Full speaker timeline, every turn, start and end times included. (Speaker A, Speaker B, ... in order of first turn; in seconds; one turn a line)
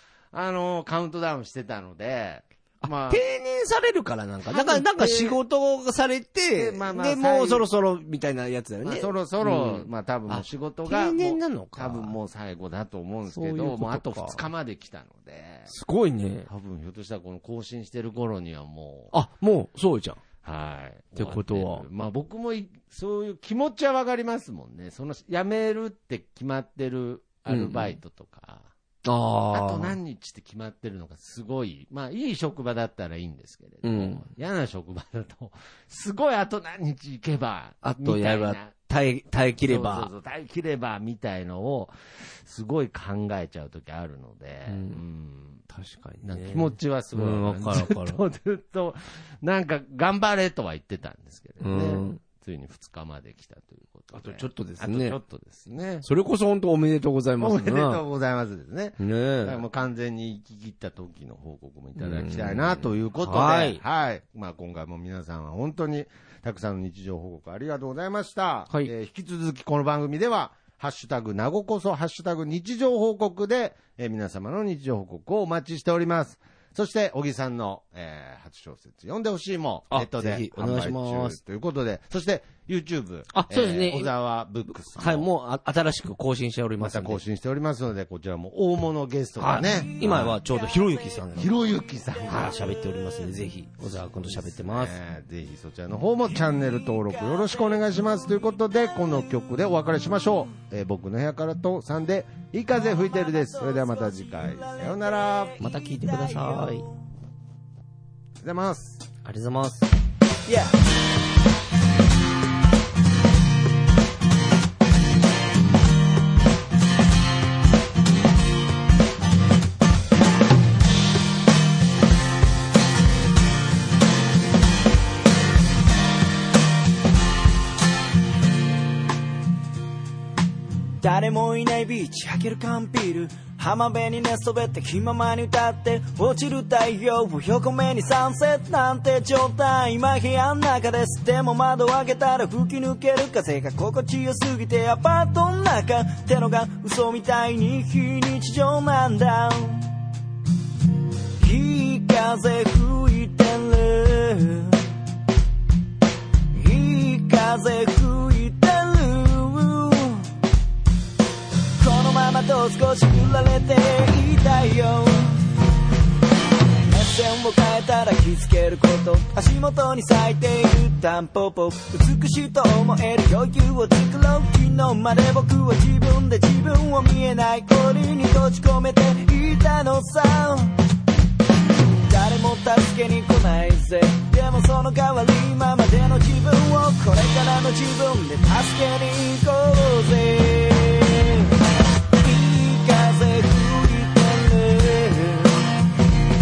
Speaker A: 0.3-3.2
Speaker B: 2.8-12.2
Speaker A: 4.4-5.4
Speaker A: 6.5-7.7
Speaker A: 8.8-15.7
Speaker B: 13.3-14.4
Speaker B: 15.7-16.5
Speaker A: 16.5-19.1
Speaker B: 19.1-20.2
Speaker A: 20.4-28.7
Speaker B: 21.1-21.9
Speaker B: 27.5-28.0
Speaker B: 29.0-30.0
Speaker A: 29.5-38.7
Speaker B: 33.8-34.2
Speaker B: 37.8-40.1
Speaker A: 39.6-45.6
Speaker B: 44.7-45.0
Speaker B: 45.7-48.2
Speaker A: 46.2-56.0
Speaker B: 51.6-52.2
Speaker B: 54.1-55.2
Speaker B: 56.0-58.0
Speaker A: 57.4-85.3
Speaker B: 59.0-59.6
Speaker B: 62.0-63.8
Speaker B: 79.9-81.4
Speaker B: 83.3-84.1
Speaker B: 84.8-87.2
Speaker A: 86.8-90.3
Speaker B: 89.4-91.5
Speaker A: 91.3-92.6
Speaker B: 92.3-95.0
Speaker A: 93.8-105.6
Speaker C: 103.2-106.9
Speaker B: 105.6-106.9
Speaker A: 108.4-109.1
Speaker B: 109.2-109.9
Speaker C: 110.5-110.7
Speaker C: 131.0-149.9
Speaker C: 151.4-154.9
Speaker C: 156.5-160.3
Speaker C: 161.8-165.5
Speaker C: 166.8-180.8
Speaker C: 182.1-191.5
Speaker C: 192.2-195.7